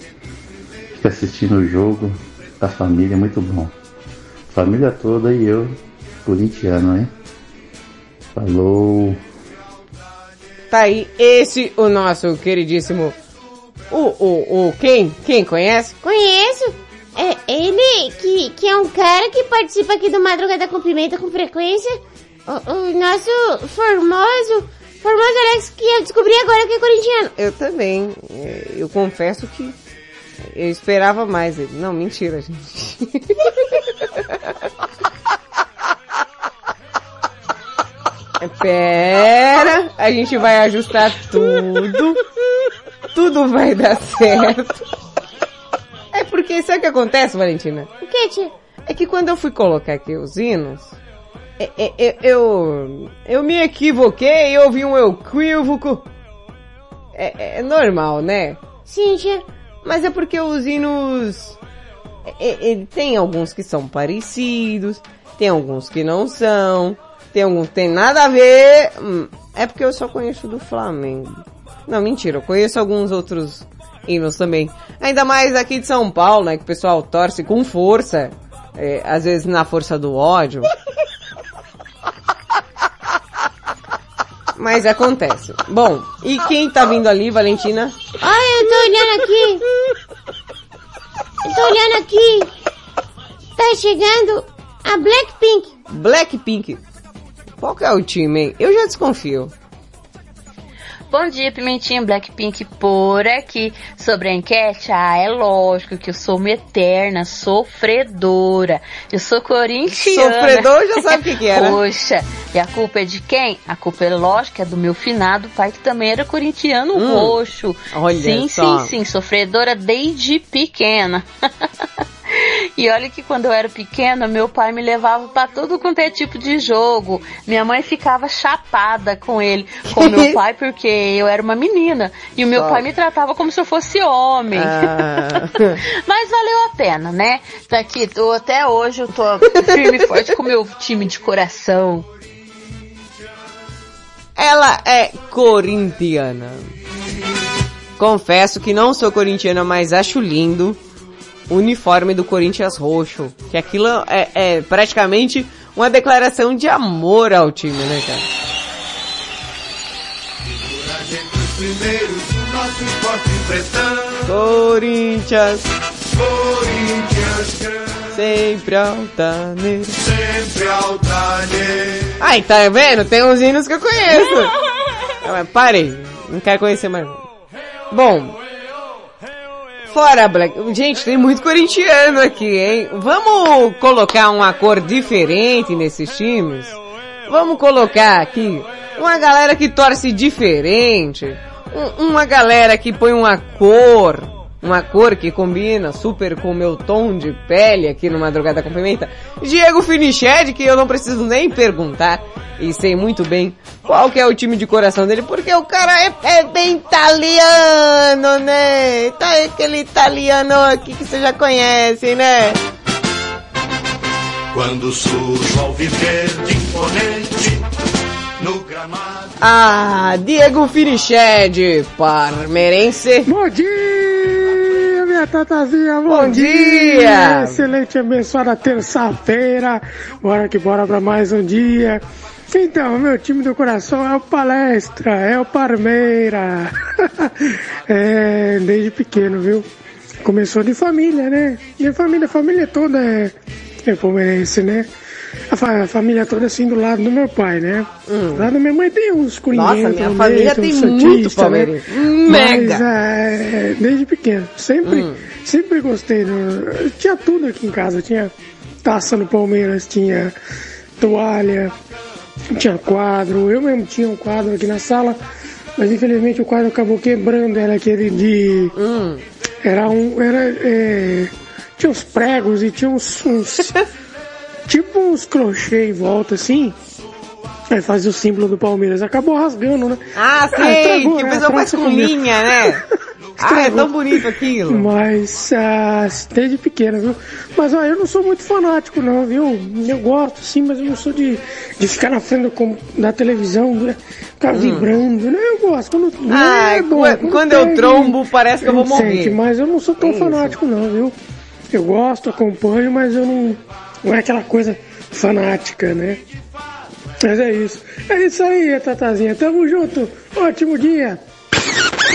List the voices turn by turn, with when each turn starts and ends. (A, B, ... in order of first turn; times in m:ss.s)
0:00.9-0:03.7 A
0:04.5-0:07.1 A
0:08.3-0:09.2 A
0:10.7-0:13.2 B
0:13.9-0:16.0 B
0:16.0-0:27.3 C
0:27.4-0:29.8 B
0:30.4-0:33.4 B
0:38.4-0:42.2 B
0:43.1-0:44.8 B
0:46.1-0:47.9 B
0:48.0-0:48.5 C
0:48.9-0:51.0 B
0:51.6-0:56.0 B
0:57.2-0:58.6 B
0:58.9-0:59.4 C
0:59.8-1:01.6 B
1:02.3-1:20.7 B
1:24.6-1:28.0 B
1:28.2-1:29.6 C
1:31.4-1:32.5 C
1:33.6-1:35.7 C
1:35.9-1:36.8 B
1:37.6-1:39.5 B
1:41.1-2:01.3 D
1:50.0-1:51.8 B
1:57.0-1:57.4 B
1:57.9-1:58.9 B
2:02.8-2:14.8 D
2:09.9-2:10.4 B
2:12.5-2:12.8 B
2:14.5-2:15.8 B
2:16.1-2:22.1 D
2:19.5-2:20.0 B
2:24.4-2:26.7 B
2:28.0-2:30.8 B
2:31.5-2:38.2 B
2:41.8-2:43.6 E
2:44.2-2:45.6 B
2:46.8-2:47.2 E
2:48.1-2:50.0 B
2:50.5-2:51.6 E
2:52.2-2:54.5 B
2:55.2-2:57.2 B
2:57.9-2:58.4 B
2:59.9-3:32.6 B
3:34.6-3:37.5 E
3:38.4-3:39.0 E
3:39.4-3:43.3 B
3:43.3-3:56.7 F
3:46.1-3:47.6 B
3:57.9-3:59.7 F
4:00.2-4:03.3 F
4:03.9-4:04.9 F
4:05.5-4:11.7 F
4:08.1-4:08.5 B
4:09.5-4:12.9 B
4:12.3-4:18.3 F
4:14.8-4:15.3 B
4:18.8-4:20.3 F
4:21.0-4:21.7 F
4:22.5-4:25.2 F
4:25.8-4:28.7 F
4:28.8-4:29.2 B
4:29.6-4:33.7 F
4:34.7-4:36.8 F
4:37.7-4:40.0 F
4:40.2-4:42.8 B
4:40.5-4:42.7 F
4:43.4-4:44.9 B
4:43.4-4:43.9 F
4:44.7-5:01.2 F
4:54.5-4:54.9 B
4:56.3-4:59.4 B
5:00.0-5:00.6 B
5:01.7-5:06.2 F
5:07.2-5:11.2 F